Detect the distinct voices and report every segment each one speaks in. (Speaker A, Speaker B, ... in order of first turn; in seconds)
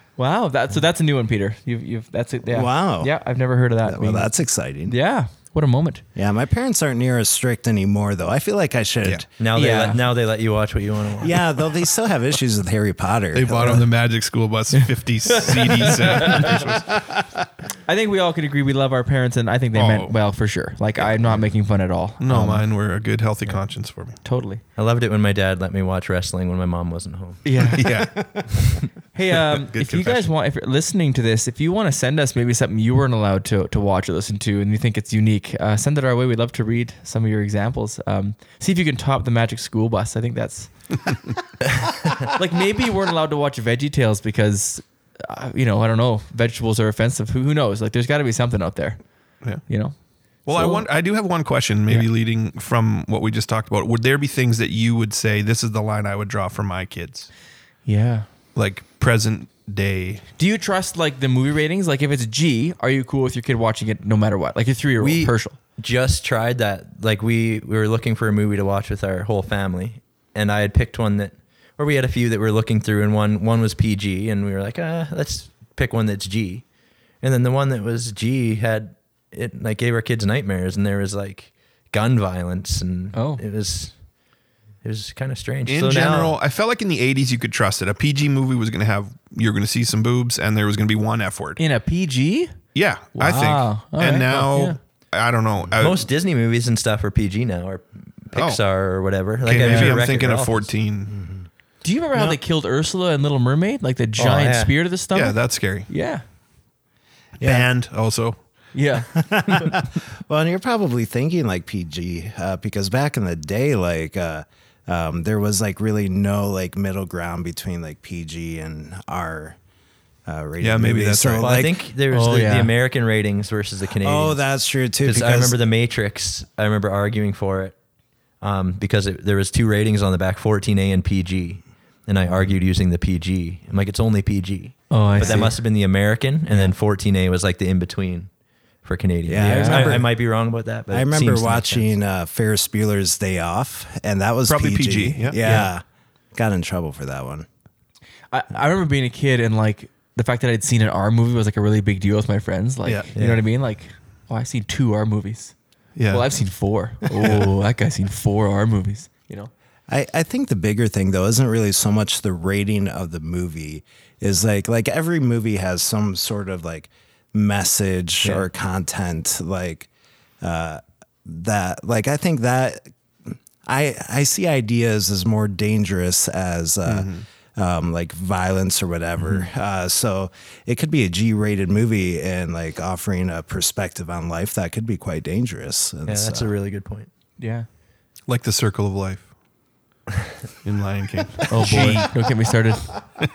Speaker A: 0.2-4.3, 4.9-6.0, 9.5-10.0, 14.8-16.6, 17.9-22.6, 24.2-24.6, 27.4-27.9, 29.1-40.7, 42.2-49.0, 49.7-50.0, 50.5-50.9, 57.9-58.3, 60.4-65.6, 83.1-83.4, 91.6-92.6, 93.1-94.8, 99.6-100.0, 101.8-106.2, 108.7-109.2, 122.1-122.7, 134.9-135.6, 139.4-140.0, 148.3-155.5, 156.1-159.5, 187.4-187.7, 191.5-192.9
Speaker B: 2.5-3.1, 3.8-5.0, 6.2-9.3, 11.2-13.9, 101.1-101.5, 107.4-107.7, 109.1-119.6, 120.3-121.9, 123.9-125.6, 135.2-135.5, 139.3-140.1, 140.9-145.8, 146.3-147.5, 159.9-169.9, 170.4-186.5
Speaker C: 9.4-11.4, 24.8-27.4, 65.0-76.6, 77.2-84.0, 84.8-86.4, 95.8-100.7, 104.2-104.7, 121.4-124.4, 125.0-127.8, 128.4-138.3, 138.8-141.9, 153.1-153.4, 168.2-168.5, 179.2-179.5, 186.1-187.1
Speaker D: 13.3-17.0, 19.7-20.1, 22.2-24.2, 27.8-28.9, 29.5-30.3, 50.5-57.3, 58.5-60.3, 85.7-91.6, 92.8-96.1, 98.3-98.6, 99.4-101.1, 105.1-105.9, 107.4-108.4, 120.6-121.5, 144.5-145.4, 156.0-156.2, 157.2-157.5, 176.9-177.2, 188.3-189.3, 190.6-192.1